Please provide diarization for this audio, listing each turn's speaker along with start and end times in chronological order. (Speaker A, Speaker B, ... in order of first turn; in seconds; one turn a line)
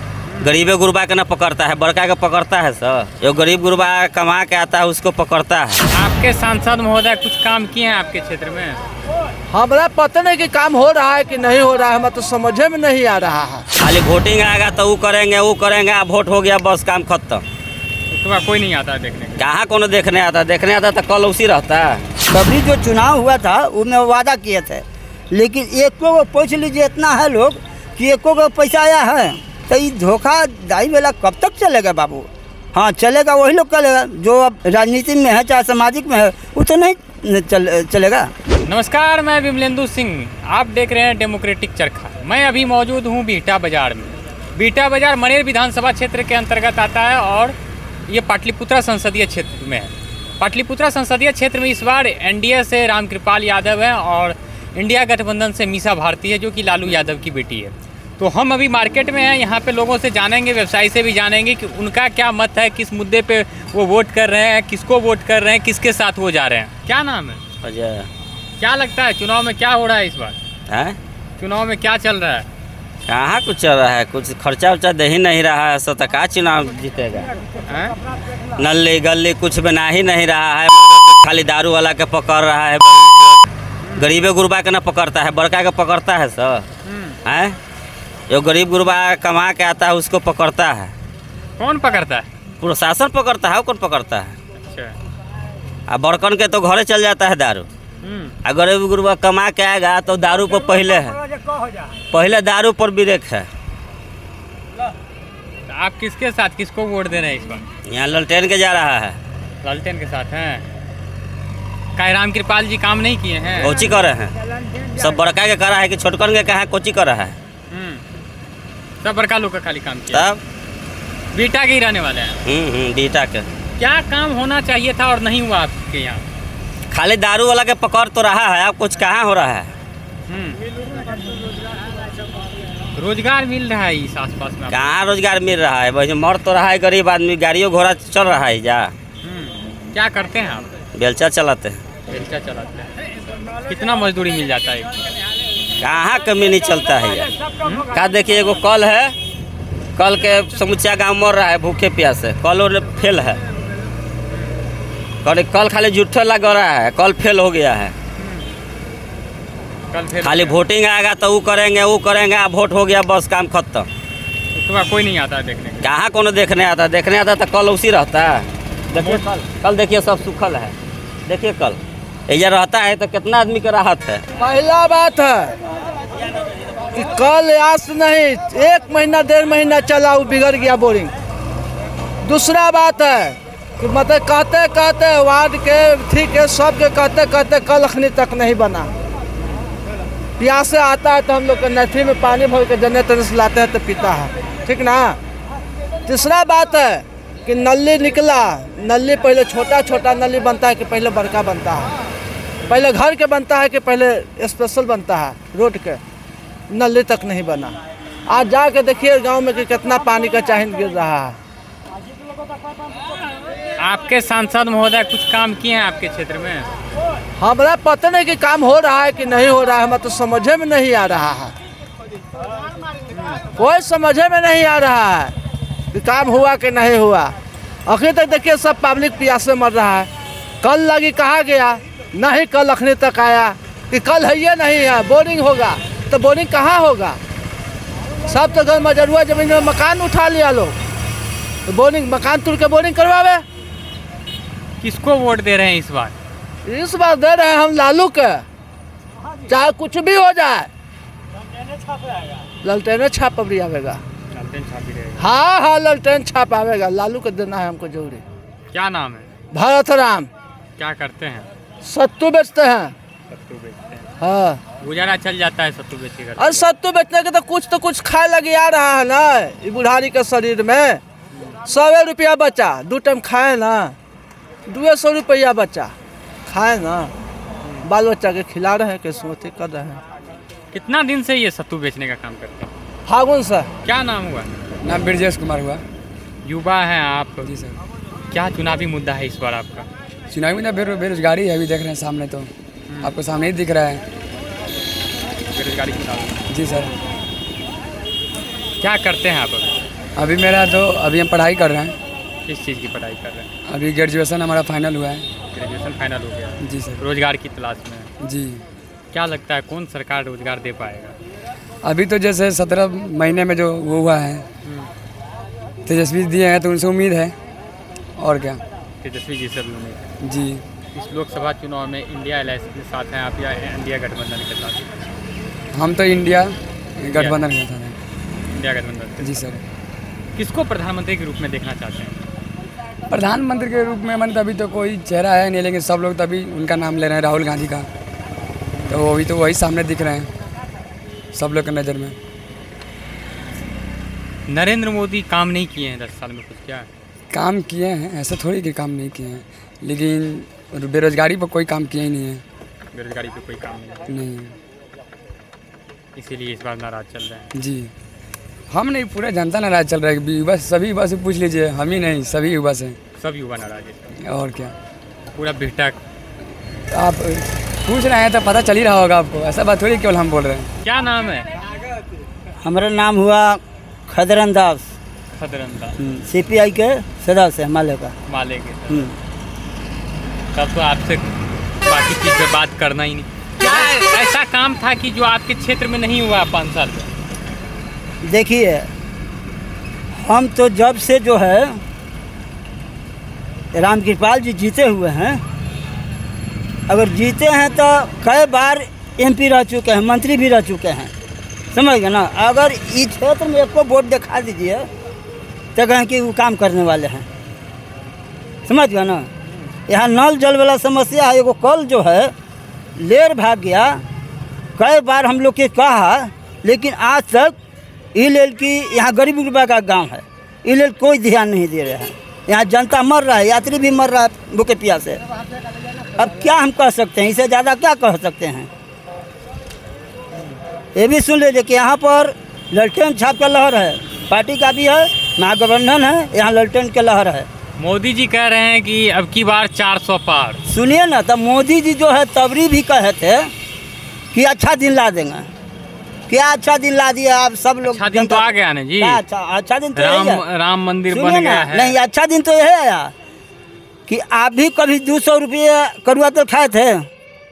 Speaker A: 0.3-0.6
Speaker B: 0.4-5.8
Speaker A: 5.9-8.8
Speaker C: 9.5-13.6
Speaker B: 13.8-17.4
Speaker A: 18.1-19.5
Speaker B: 19.4-22.0
Speaker D: 22.3-38.3
Speaker A: 38.6-47.5
Speaker A: 48.1-67.4
Speaker B: 67.6-68.1
Speaker A: 68.6-70.4
Speaker B: 70.7-71.0
Speaker A: 71.4-72.5
Speaker B: 73.1-77.3
Speaker A: 77.7-77.9
Speaker B: 78.6-83.2
Speaker A: 83.8-84.2
Speaker B: 84.0-86.6
Speaker A: 86.8-87.2
Speaker B: 87.2-87.5
Speaker B: 88.3-90.9
Speaker A: 91.6-92.3
Speaker B: 92.6-94.3
Speaker A: 94.6-94.9
Speaker B: 95.9-97.7
Speaker A: 98.0-98.3
Speaker B: 98.4-101.2
Speaker B: 102.1-103.5
Speaker A: 105.7-107.6
Speaker B: 107.9-109.2
Speaker A: 109.6-110.7
Speaker A: 112.0-113.8
Speaker B: 113.6-114.3
Speaker B: 114.9-117.3
Speaker A: 117.7-118.0
Speaker A: 119.0-120.2
Speaker B: 120.1-120.4
Speaker A: 121.3-122.4
Speaker B: 122.5-123.5
Speaker A: 123.8-126.2
Speaker B: 126.9-129.7
Speaker A: 130.3-130.6
Speaker A: 132.9-134.9
Speaker B: 134.7-138.9
Speaker A: 139.2-140.7
Speaker B: 140.9-141.8
Speaker A: 142.1-142.9
Speaker A: 143.7-144.9
Speaker B: 145.8-147.3
Speaker B: 147.9-149.1
Speaker B: 150.0-153.4
Speaker A: 154.3-154.6
Speaker B: 155.2-157.9
Speaker A: 158.2-158.5
Speaker A: 159.9-160.6
Speaker B: 160.2-163.9
Speaker A: 164.5-165.9
Speaker B: 165.8-170.7
Speaker B: 171.3-174.2
Speaker C: 174.4-175.5
Speaker C: 176.9-181.1
Speaker C: 182.2-188.9
Speaker C: 190.4-195.2
Speaker C: 196.1-201.9
Speaker C: 202.7-206.0
Speaker C: 206.7-207.7
Speaker C: 208.3-211.4
Speaker A: 213.8-216.7
Speaker C: 217.4-221.5
Speaker A: 223.1-223.4
Speaker C: 223.6-225.3
Speaker C: 225.9-227.3
Speaker C: 227.8-230.1
Speaker C: 230.6-237.2
Speaker C: 238.3-240.8
Speaker C: 241.7-243.4
Speaker A: 244.8-246.1
Speaker C: 246.6-248.4
Speaker C: 249.5-250.7
Speaker C: 252.6-254.0
Speaker A: 254.3-255.2
Speaker C: 255.2-258.2
Speaker A: 258.7-259.3
Speaker C: 259.5-260.3
Speaker A: 260.8-261.5
Speaker C: 261.8-262.9
Speaker A: 263.3-264.1
Speaker C: 264.2-264.6
Speaker A: 264.8-266.6
Speaker C: 266.4-271.0
Speaker C: 271.6-273.9
Speaker C: 274.7-275.9
Speaker C: 276.5-277.1
Speaker C: 277.8-280.0
Speaker A: 280.7-282.7
Speaker C: 283.1-283.7
Speaker A: 283.8-284.5
Speaker E: 284.8-285.8
Speaker A: 286.4-287.5
Speaker E: 287.4-287.8
Speaker A: 288.3-289.9
Speaker E: 290.3-292.5
Speaker A: 292.9-293.1
Speaker E: 293.0-294.0
Speaker A: 295.5-296.4
Speaker E: 296.5-296.9
Speaker A: 298.8-299.8
Speaker E: 300.1-301.9
Speaker A: 302.4-303.5
Speaker E: 303.7-305.2
Speaker A: 305.5-308.1
Speaker E: 306.6-307.0
Speaker E: 308.2-308.6
Speaker A: 309.1-311.1
Speaker E: 311.8-314.4
Speaker A: 314.6-314.9
Speaker E: 315.9-317.3
Speaker E: 318.2-318.6
Speaker A: 319.0-320.1
Speaker E: 320.2-320.6
Speaker A: 320.9-324.9
Speaker E: 325.7-327.9
Speaker A: 327.1-327.4
Speaker A: 328.5-329.5
Speaker E: 329.2-329.6
Speaker A: 330.3-332.2
Speaker E: 333.1-337.9
Speaker A: 338.7-339.0
Speaker E: 338.9-340.3
Speaker E: 341.3-342.1
Speaker A: 344.5-346.9
Speaker E: 347.3-352.4
Speaker A: 352.9-354.1
Speaker E: 354.1-354.5
Speaker A: 356.1-357.5
Speaker E: 357.5-357.9
Speaker E: 358.7-363.0
Speaker A: 363.2-364.1
Speaker E: 364.2-364.7
Speaker A: 365.3-366.0
Speaker E: 366.9-370.7
Speaker A: 370.8-371.4
Speaker D: 372.6-374.9
Speaker A: 375.3-375.9
Speaker D: 376.0-378.1
Speaker A: 378.3-379.1
Speaker A: 380.5-381.2
Speaker A: 381.9-387.1
Speaker D: 388.2-388.9
Speaker D: 390.1-391.8
Speaker D: 393.7-395.4
Speaker D: 396.9-401.1
Speaker D: 401.7-404.9
Speaker D: 405.7-407.3
Speaker D: 408.6-409.3
Speaker D: 409.9-412.3
Speaker D: 413.0-414.0
Speaker D: 414.8-417.5
Speaker D: 418.1-425.2
Speaker D: 426.1-428.7
Speaker D: 430.9-437.5
Speaker A: 437.8-440.6
Speaker D: 440.6-443.5
Speaker D: 444.3-445.5
Speaker D: 446.3-450.4
Speaker A: 447.9-449.2
Speaker A: 449.9-452.0
Speaker D: 451.1-453.1
Speaker D: 454.1-457.1